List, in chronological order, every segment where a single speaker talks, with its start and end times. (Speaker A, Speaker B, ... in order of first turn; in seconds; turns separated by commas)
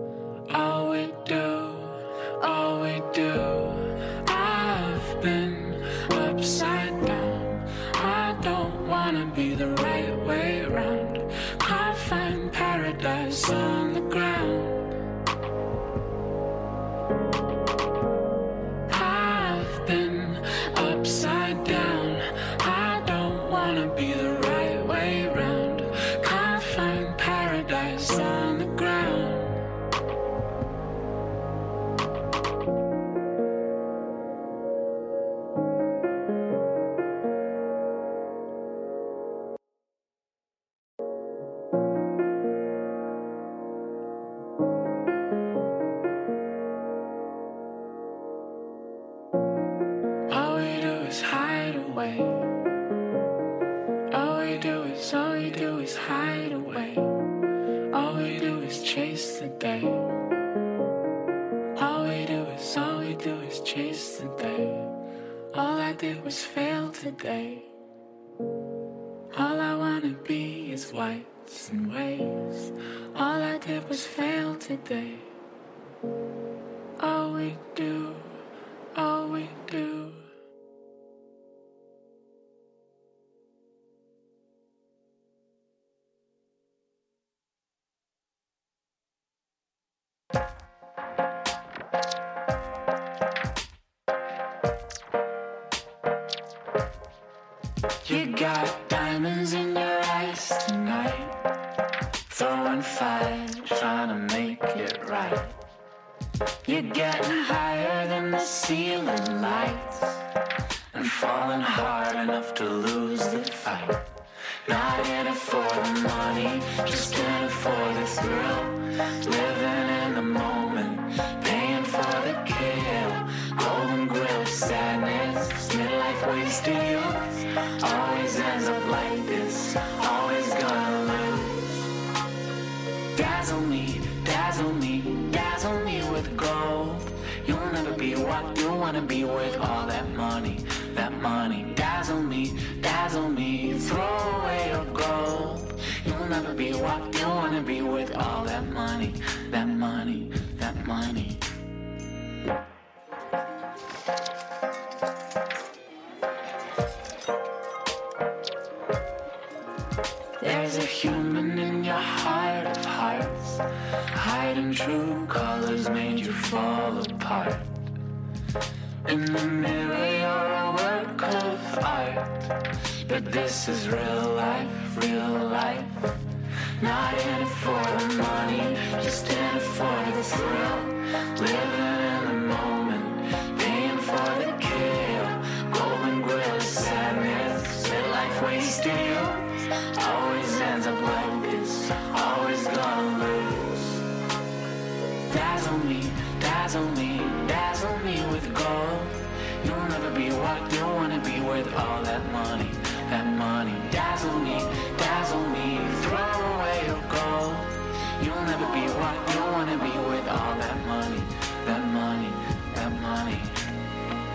Speaker A: 0.5-14.9, Speaker A: 18.9-29.6, Speaker A: 50.3-52.4, Speaker A: 54.1-57.1, Speaker A: 57.9-60.1, Speaker A: 61.8-64.9, Speaker A: 65.5-67.7, Speaker A: 69.3-75.3, Speaker A: 77.0-78.4, Speaker A: 78.9-80.2, Speaker A: 98.0-101.4, Speaker A: 102.3-105.5, Speaker A: 106.6-110.2, Speaker A: 110.9-114.0, Speaker A: 114.6-131.9, Speaker A: 133.1-151.4, Speaker A: 160.4-167.7, Speaker A: 169.1-176.2, Speaker A: 176.8-194.1, Speaker A: 195.2-213.7